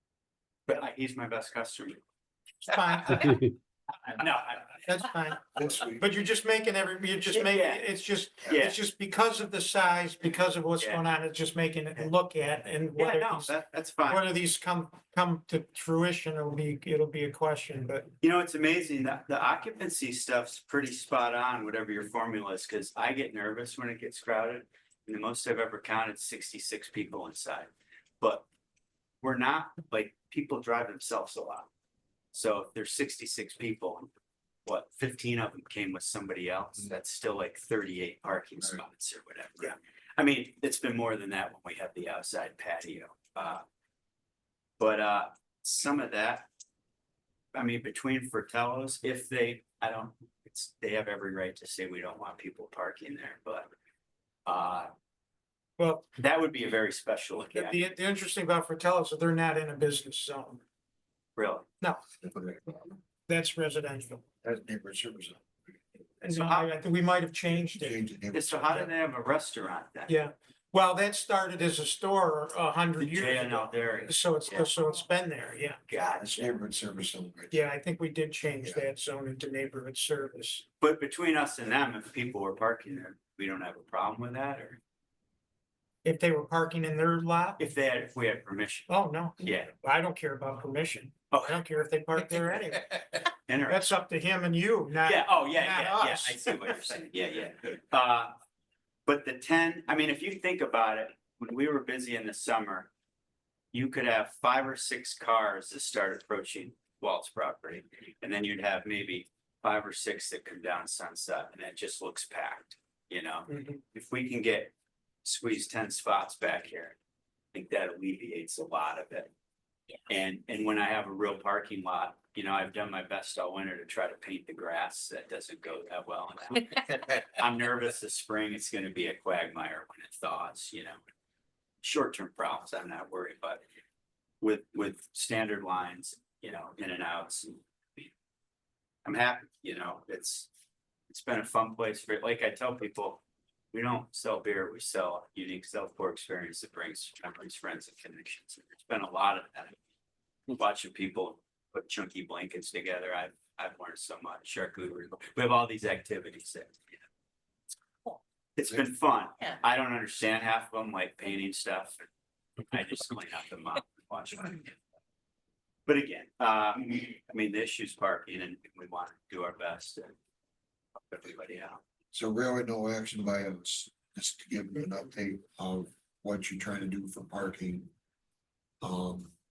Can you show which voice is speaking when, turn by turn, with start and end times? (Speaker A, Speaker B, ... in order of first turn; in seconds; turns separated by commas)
Speaker A: 0.7-2.0, Speaker B: 2.6-3.4, Speaker A: 3.0-3.4, Speaker A: 4.0-4.9, Speaker B: 4.9-5.4, Speaker C: 5.5-6.1, Speaker B: 6.0-18.1, Speaker A: 7.3-7.8, Speaker A: 8.4-8.8, Speaker A: 13.0-14.3, Speaker A: 18.2-27.7, Speaker A: 29.2-31.7, Speaker A: 32.3-34.1, Speaker A: 34.7-43.6, Speaker A: 44.8-46.5, Speaker A: 47.5-53.7, Speaker A: 54.5-54.9, Speaker B: 55.8-56.1, Speaker A: 56.2-57.8, Speaker B: 57.5-60.6, Speaker A: 61.4-61.7, Speaker C: 62.2-62.9, Speaker B: 63.3-64.2, Speaker C: 64.4-65.4, Speaker B: 66.2-68.0, Speaker A: 66.3-66.7, Speaker C: 67.8-68.9, Speaker A: 68.3-70.1, Speaker B: 70.1-75.8, Speaker A: 73.0-74.8, Speaker A: 75.9-76.5, Speaker C: 76.2-77.6, Speaker B: 77.5-80.6, Speaker A: 80.8-84.8, Speaker B: 86.0-87.6, Speaker A: 87.6-88.9, Speaker B: 88.9-93.0, Speaker A: 89.4-89.7, Speaker A: 91.3-91.6, Speaker A: 93.5-93.8, Speaker B: 93.7-96.9, Speaker A: 95.0-98.3, Speaker A: 99.1-102.9, Speaker A: 103.7-114.7, Speaker A: 115.2-117.0, Speaker A: 117.5-119.3, Speaker A: 120.1-131.0, Speaker A: 131.8-133.6, Speaker A: 134.4-138.1, Speaker A: 139.1-140.5, Speaker A: 141.1-143.2, Speaker A: 143.7-149.8, Speaker A: 150.5-156.8, Speaker A: 158.6-162.1, Speaker A: 162.7-164.7, Speaker A: 165.9-170.1, Speaker A: 171.1-171.8, Speaker C: 172.1-177.9, Speaker C: 178.8-179.3